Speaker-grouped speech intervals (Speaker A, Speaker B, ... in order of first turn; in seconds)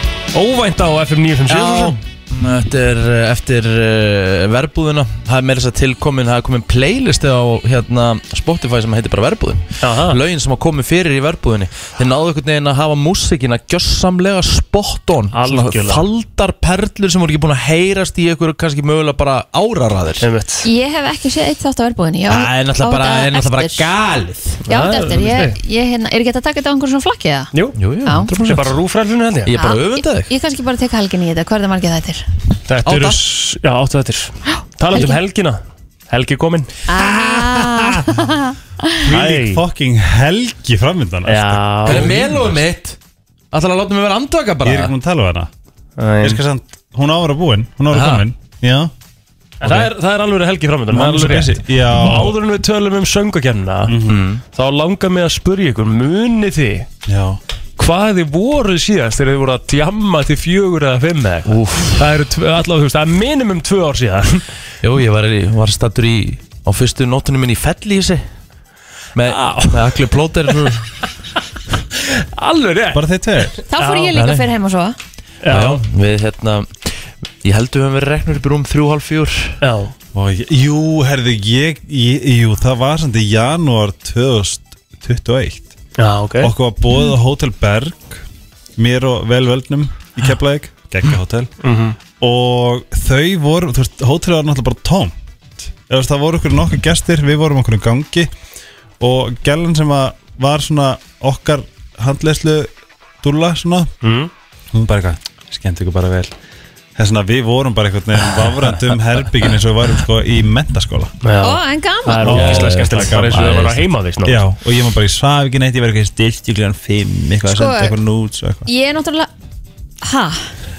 Speaker A: 0.3-2.0, 9.8-10.2, 15.3-16.0, 20.2-20.6, 24.7-25.6, 28.3-29.5, 32.7-36.7, 39.1-39.6, 41.2-42.2, 46.0-46.4, 49.6-54.0, 54.5-56.9, 57.8-64.4, 69.2-70.1, 72.0-73.0, 73.7-74.1, 75.4-75.8, 79.6-79.9, 86.0-86.5, 91.6-92.0, 104.0-104.3, 111.2-114.4
Speaker B: 1.5-20.3, 22.3-24.6, 27.8-28.7, 29.4-30.3, 32.8-33.2, 41.9-43.0, 43.5-44.9, 47.9-48.2, 54.0-54.4, 61.5-62.0, 64.8-68.2, 69.1-70.8, 74.1-74.5, 75.5-76.9, 77.4-79.5, 112.3-113.7
Speaker C: 20.6-23.9, 24.7-27.5, 28.0-28.3, 29.5-32.2, 34.9-35.2, 36.9-38.5, 73.7-75.0, 111.4-112.4, 117.5-117.9, 118.7-119.3, 120.0-120.5
Speaker D: 39.0-42.6, 44.6-45.5, 46.2-48.9, 49.6-49.9, 50.9-52.4, 53.9-54.2, 57.1-57.4, 72.9-73.5, 80.1-85.7, 86.4-88.2, 88.8-91.5, 92.2-95.1, 95.8-98.3, 99.0-102.7, 103.2-103.9, 104.7-106.3, 107.0-111.1, 112.2-118.6